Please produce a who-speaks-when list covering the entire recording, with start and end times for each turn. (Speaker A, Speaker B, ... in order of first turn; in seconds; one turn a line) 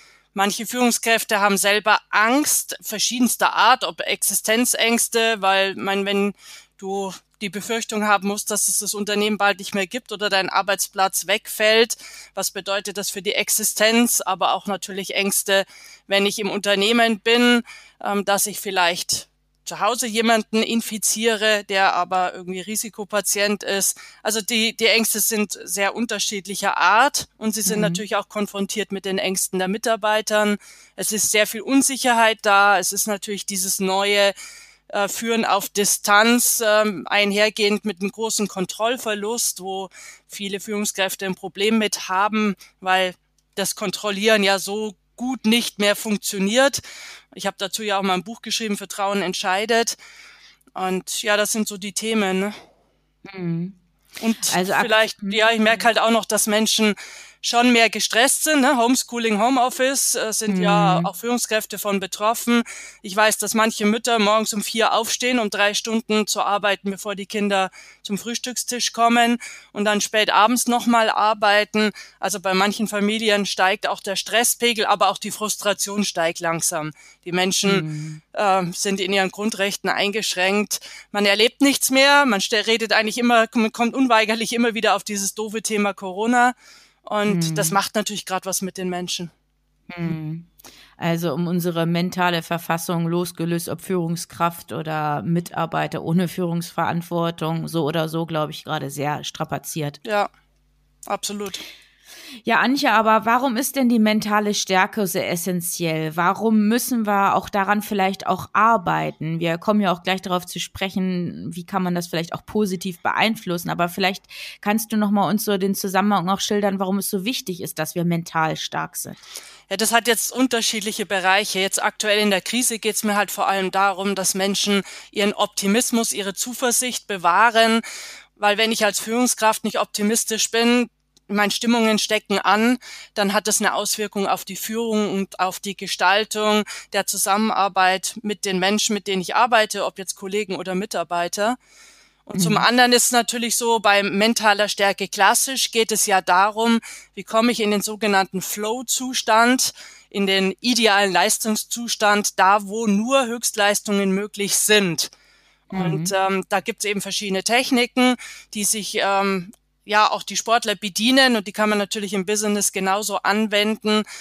Speaker A: 0.3-34.3
Speaker B: 27.7-28.0
Speaker A: 34.9-46.8
Speaker A: 47.3-50.0
Speaker A: 50.7-52.5
Speaker B: 53.2-53.8
Speaker A: 54.2-89.3
Speaker B: 54.5-55.8
Speaker B: 60.5-61.1
Speaker B: 77.6-78.2
Speaker B: 87.3-87.8
Speaker B: 89.9-100.0
Speaker A: 101.1-101.6
Speaker B: 102.4-119.2
Speaker A: 119.7-127.8
Speaker A: 128.4-141.6
Speaker A: 142.3-155.1
Speaker B: 142.3-142.7
Speaker A: 155.7-164.0
Speaker B: 155.7-156.1